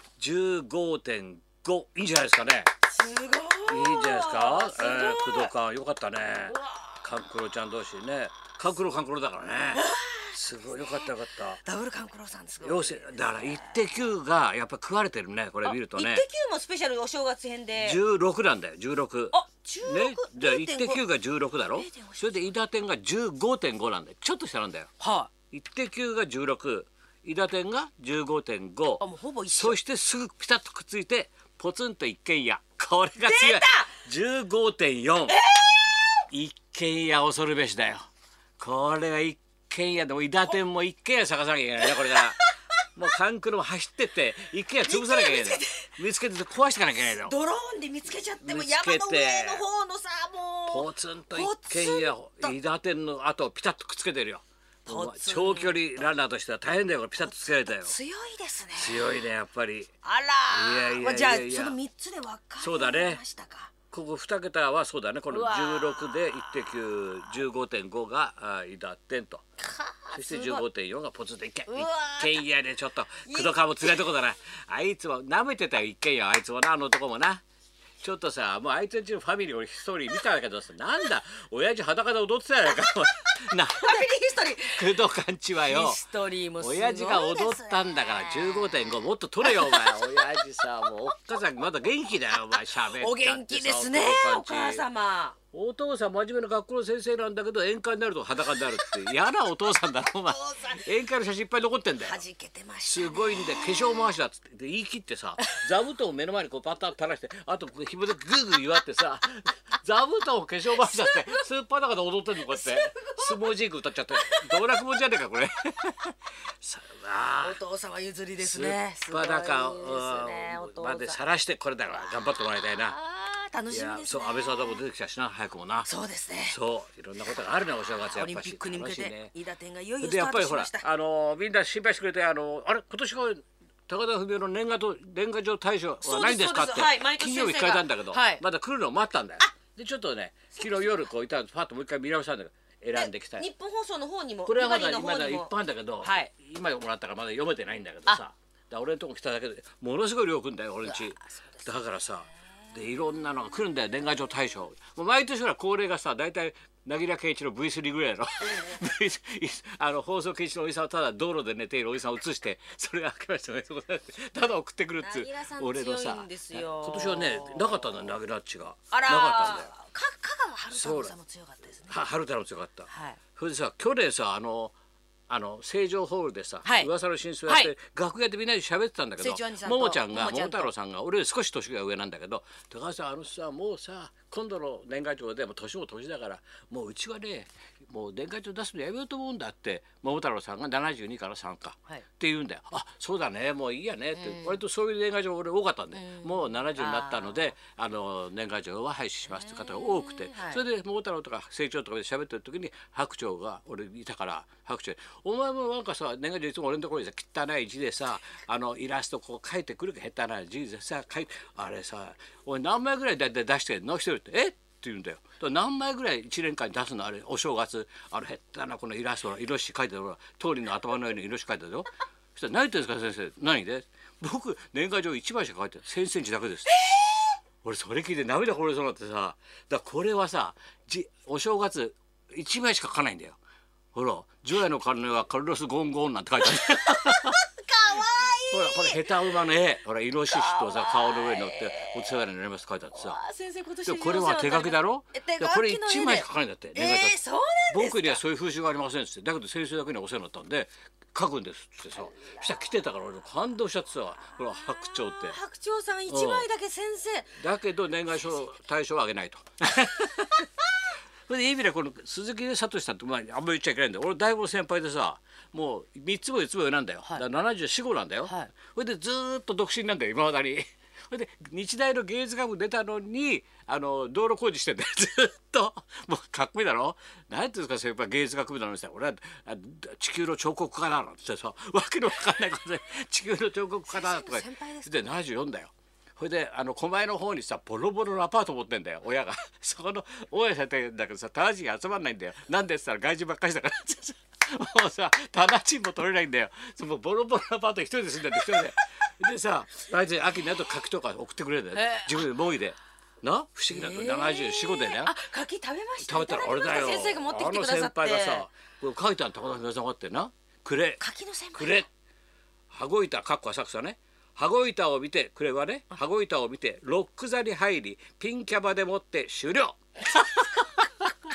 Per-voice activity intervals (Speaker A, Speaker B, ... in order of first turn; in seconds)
Speaker A: 0.2-2.7, 3.6-11.6, 12.6-16.2, 17.8-24.9, 25.5-35.4, 36.3-38.0, 38.6-47.3, 48.4-49.6, 50.7-57.9, 58.7-59.9, 60.5-61.8, 62.6-63.2, 63.9-69.4, 70.1-77.4, 78.0-84.1, 84.7-86.0, 86.6-94.8, 95.5-102.2, 102.8-117.6, 118.4-123.0, 123.7-125.9, 126.5-129.3, 130.0-143.5, 144.4-169.7, 170.7-171.1, 171.9-174.7, 175.3-226.8, 227.6-233.4, 233.9-237.4, 238.5-243.2, 243.8-247.2, 247.7-255.4, 256.1-256.5, 257.4-260.5, 261.3-305.1, 306.0-311.0, 311.5-311.9, 312.7-321.2
Speaker B: 2.9-5.5, 6.4-7.0, 9.7-13.8, 15.6-18.0, 19.3-21.0, 21.7-22.5, 25.0-25.3, 29.0-29.8, 33.2-33.9, 35.3-36.2, 41.8-42.5, 44.8-45.9, 47.1-52.5, 54.9-56.0, 57.2-59.1, 60.0-63.7, 65.3-66.6, 69.6-70.7, 71.7-72.4, 73.2-74.1, 83.7-85.0, 85.6-90.4, 92.5-95.4, 100.2-100.8, 102.0-104.1, 110.8-111.4, 112.5-113.5, 114.1-114.6, 117.4-121.2, 122.8-124.8, 125.8-126.6, 128.0-130.9, 136.0-138.4, 140.5-141.1, 142.9-146.3, 150.8-151.7, 158.4-158.8, 165.0-168.1, 168.9-171.9, 172.9-173.2, 176.6-176.9, 177.5-177.7, 179.2-180.7, 194.1-194.6, 195.9-197.5, 199.3-200.6, 226.7-227.3, 236.6-239.4, 240.3-242.2, 242.9-248.2, 252.1-252.4, 254.4-257.4, 268.2-268.5, 283.9-285.1, 298.3-298.8, 301.7-302.3, 303.7-308.5, 311.0-311.9